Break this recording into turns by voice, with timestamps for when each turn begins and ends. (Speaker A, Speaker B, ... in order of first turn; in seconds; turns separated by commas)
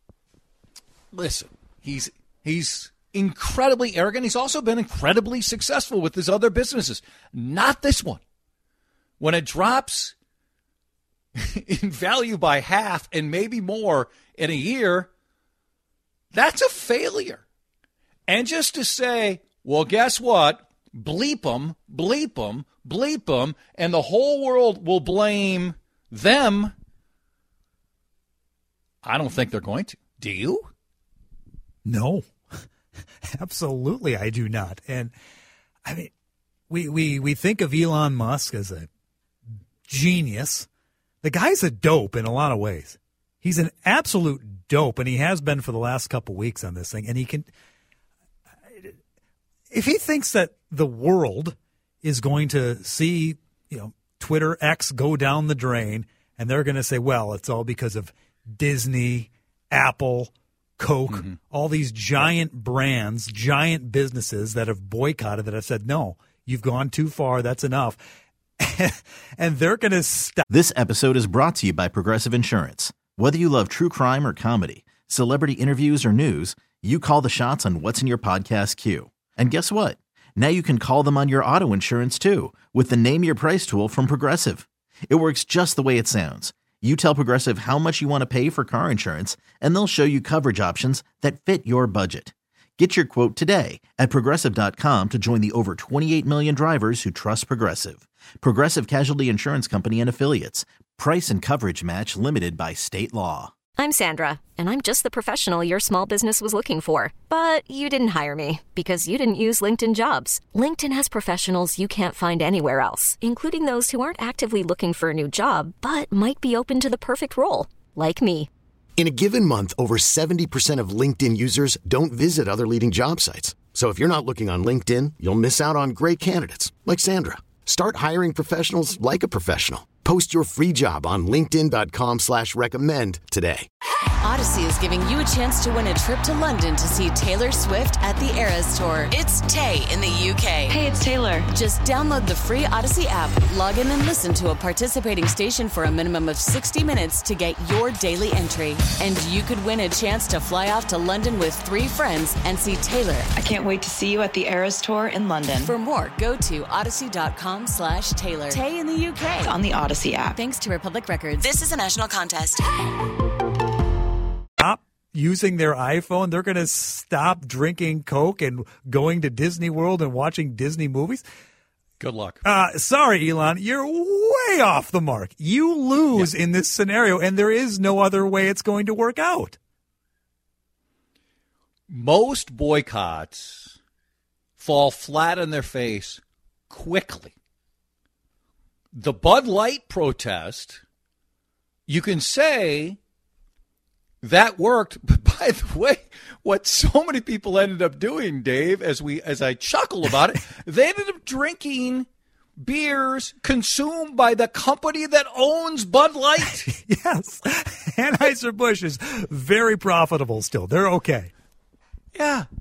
Speaker A: 1.1-8.2, Speaker A: 9.2-10.2, Speaker A: 11.4-15.1, Speaker A: 16.3-17.4, Speaker A: 18.3-26.7, Speaker A: 29.0-30.7, Speaker B: 31.9-32.6, Speaker B: 33.3-35.1, Speaker B: 35.8-36.1, Speaker B: 36.7-38.9, Speaker B: 39.9-40.7, Speaker B: 41.2-47.5, Speaker B: 49.7-68.0, Speaker A: 61.1-61.4, Speaker B: 68.6-70.4, Speaker C: 70.5-103.5, Speaker D: 103.8-118.5, Speaker E: 119.0-133.7, Speaker F: 134.2-140.7, Speaker G: 140.7-141.5, Speaker F: 141.5-153.3, Speaker G: 153.3-155.7, Speaker F: 155.6-159.5, Speaker G: 159.4-160.4, Speaker F: 160.3-162.6, Speaker B: 164.6-171.2, Speaker A: 172.0-172.4, Speaker B: 172.4-179.6, Speaker A: 181.9-183.8, Speaker A: 184.6-187.3, Speaker A: 188.9-190.8, Speaker A: 191.9-193.0, Speaker A: 194.2-202.1, Speaker A: 202.6-206.7, Speaker B: 206.7-211.3, Speaker A: 212.1-212.5